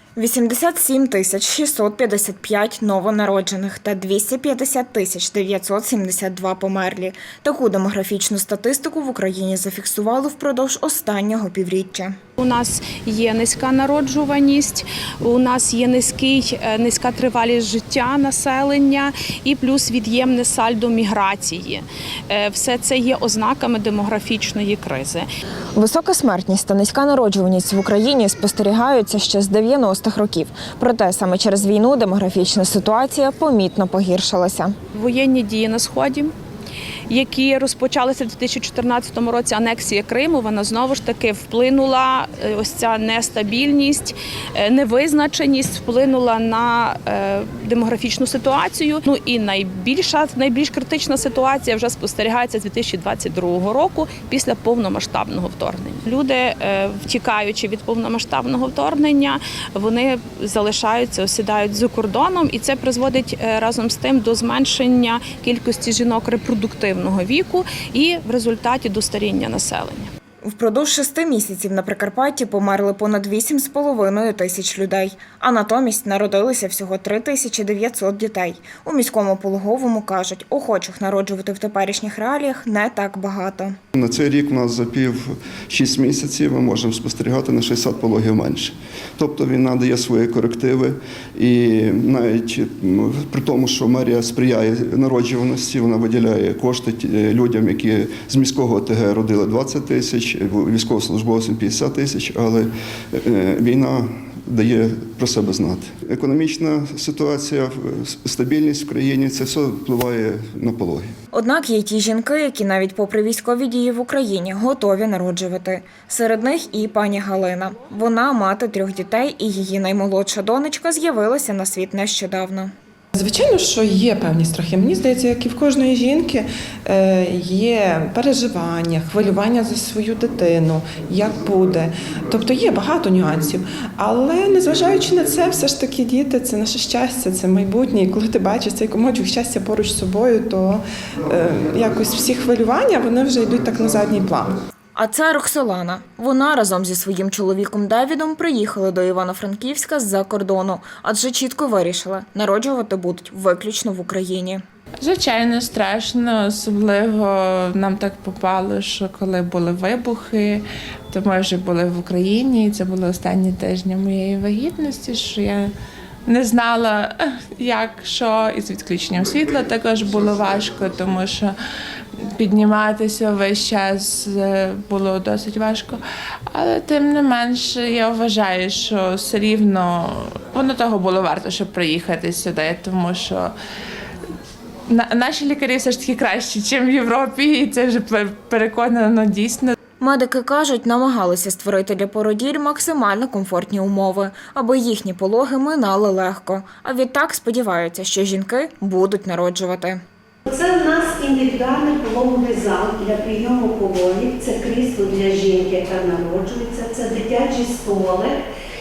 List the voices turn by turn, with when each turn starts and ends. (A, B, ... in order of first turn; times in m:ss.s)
0:00.2-0:12.2 A
0:12.4-0:25.3 B
0:25.8-0:34.8 A
0:34.9-0:36.3 B
0:37.1-1:10.1 B
1:10.4-1:23.8 A
1:24.0-1:51.2 C
1:51.3-2:02.7 A
2:03.2-2:24.6 D
2:25.0-2:34.6 A
2:35.0-2:45.7 E
2:46.3-2:51.6 E
2:52.4-2:56.0 E
2:56.5-3:03.5 E
3:04.9-3:09.7 E
3:10.0-3:20.0 A
3:20.5-3:28.4 F